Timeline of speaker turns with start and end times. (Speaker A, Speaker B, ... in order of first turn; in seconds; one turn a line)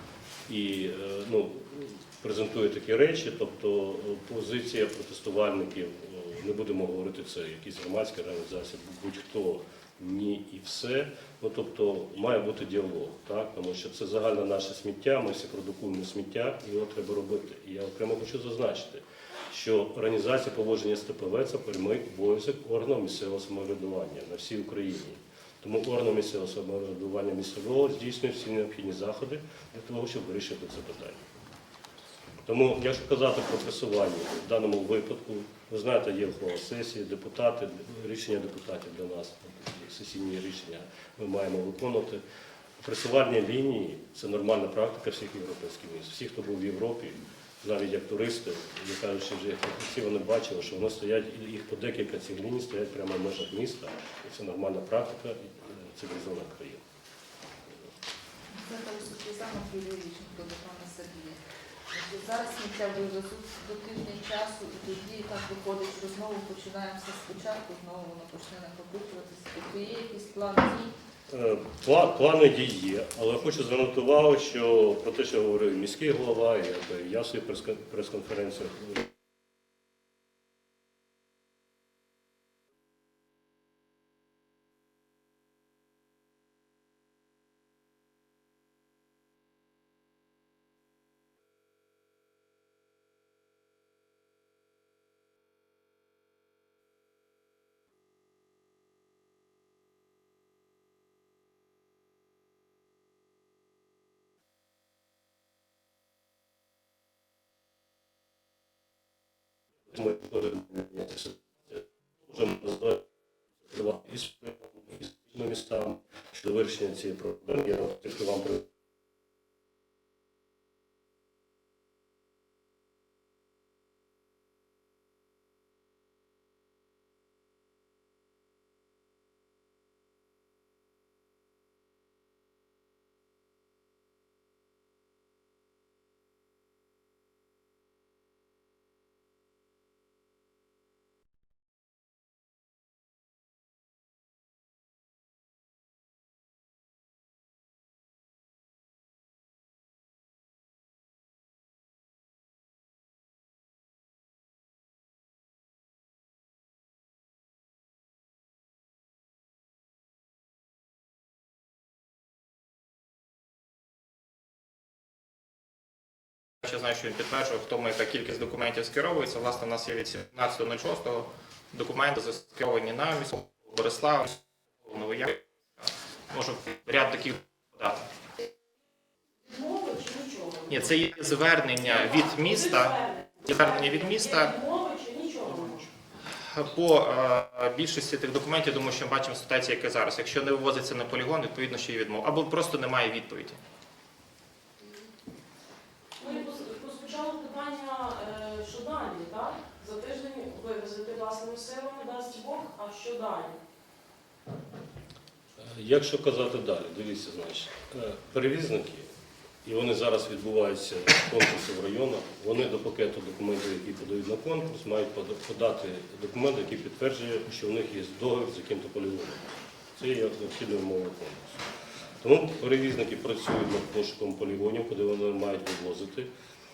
Speaker A: 0.5-31.3
Speaker A: 32.5-42.2
Speaker A: 42.8-56.8
Speaker B: 58.5-61.4
Speaker B: 61.9-70.9
Speaker A: 71.3-79.0
Speaker A: 109.9-113.0
Speaker A: 113.7-118.7
Speaker C: 166.6-178.0
Speaker D: 179.4-180.8
Speaker C: 180.7-184.5
Speaker D: 181.9-185.9
Speaker C: 186.3-193.6
Speaker D: 196.2-203.5
Speaker A: 205.6-209.1
Speaker A: 209.6-221.6
Speaker A: 222.2-226.3